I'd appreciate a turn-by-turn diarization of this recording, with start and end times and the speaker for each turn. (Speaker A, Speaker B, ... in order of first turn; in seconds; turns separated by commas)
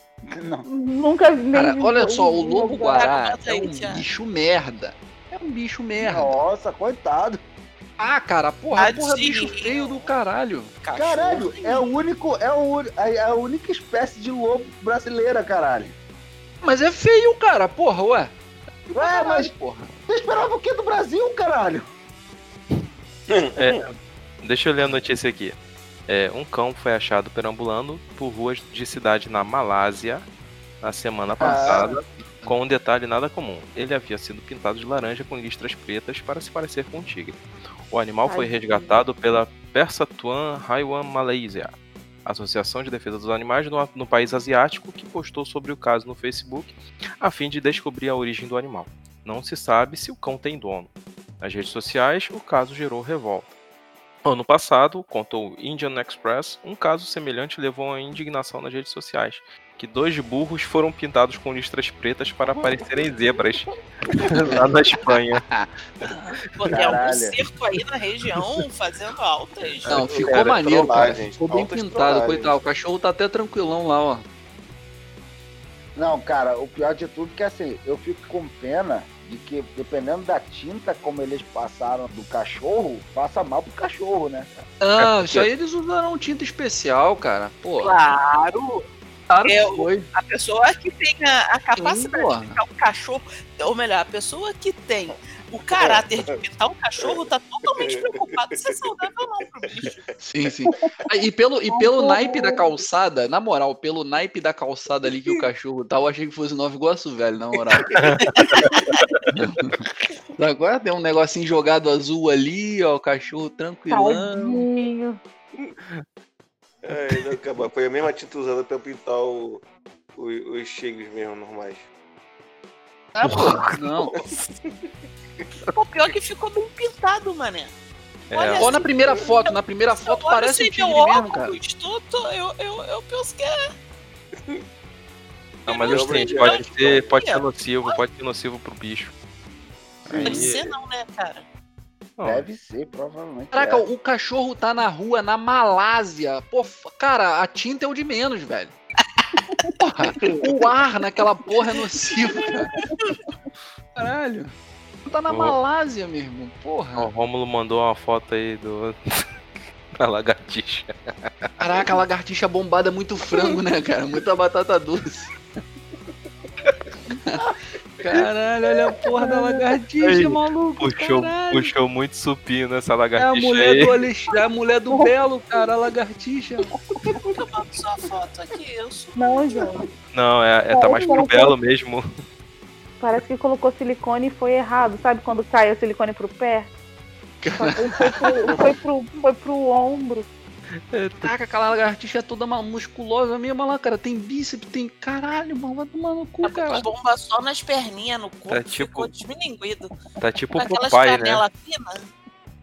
Speaker A: 0.3-0.7, Speaker B: 0.7-3.0, Speaker C: 1.5-6.3, Speaker D: 2.8-4.0, Speaker A: 6.0-7.4, Speaker C: 8.0-10.8, Speaker D: 8.7-10.1, Speaker D: 10.8-11.8, Speaker A: 10.9-15.9, Speaker C: 16.6-18.3, Speaker C: 18.9-19.9, Speaker A: 18.9-19.5, Speaker A: 20.1-21.9, Speaker E: 23.3-23.8, Speaker F: 23.6-25.6, Speaker F: 26.1-30.2, Speaker F: 30.8-37.4, Speaker A: 31.4-32.0, Speaker C: 31.5-32.5, Speaker F: 37.9-41.7, Speaker B: 38.3-38.9, Speaker F: 42.2-53.5, Speaker F: 54.2-65.4, Speaker C: 65.4-66.4, Speaker D: 66.5-70.2, Speaker A: 66.7-67.4, Speaker C: 69.9-74.2, Speaker E: 70.0-72.6, Speaker A: 76.0-84.6, Speaker C: 84.8-88.0, Speaker F: 85.0-85.5, Speaker D: 87.8-88.8, Speaker C: 89.3-90.1, Speaker D: 89.4-100.0, Speaker C: 91.8-92.6, Speaker E: 95.7-96.3, Speaker E: 97.0-98.9, Speaker C: 100.2-108.0, Speaker B: 101.7-102.7, Speaker F: 107.9-108.9, Speaker C: 109.3-109.8, Speaker C: 110.3-114.7, Speaker B: 113.9-115.2, Speaker E: 116.8-119.6, Speaker E: 120.2-121.8, Speaker C: 123.1-124.2, Speaker F: 123.2-123.8, Speaker D: 125.7-127.7, Speaker F: 128.3-128.7, Speaker D: 128.3-133.7, Speaker C: 128.6-131.6, Speaker D: 135.7-138.0, Speaker F: 135.7-139.1, Speaker E: 135.7-137.1, Speaker F: 140.1-140.7, Speaker E: 140.1-140.5, Speaker D: 140.2-141.4, Speaker F: 142.2-142.5, Speaker A: 142.2-143.8, Speaker C: 143.5-148.7, Speaker C: 149.8-152.7, Speaker D: 151.7-153.2, Speaker C: 153.9-154.5, Speaker C: 155.1-157.1, Speaker F: 155.3-155.6, Speaker F: 157.0-159.2, Speaker F: 160.0-161.5, Speaker C: 161.6-165.3, Speaker C: 167.1-171.7, Speaker F: 170.0-174.0, Speaker C: 173.2-176.7, Speaker D: 177.3-179.2, Speaker B: 179.2-179.8, Speaker F: 180.1-182.0, Speaker B: 180.7-181.5, Speaker B: 183.0-186.7, Speaker C: 187.4-188.6, Speaker B: 187.5-190.3, Speaker F: 190.9-191.3, Speaker C: 191.2-196.9, Speaker D: 196.4-200.0, Speaker F: 198.5-199.1, Speaker F: 200.2-201.4, Speaker D: 200.5-202.1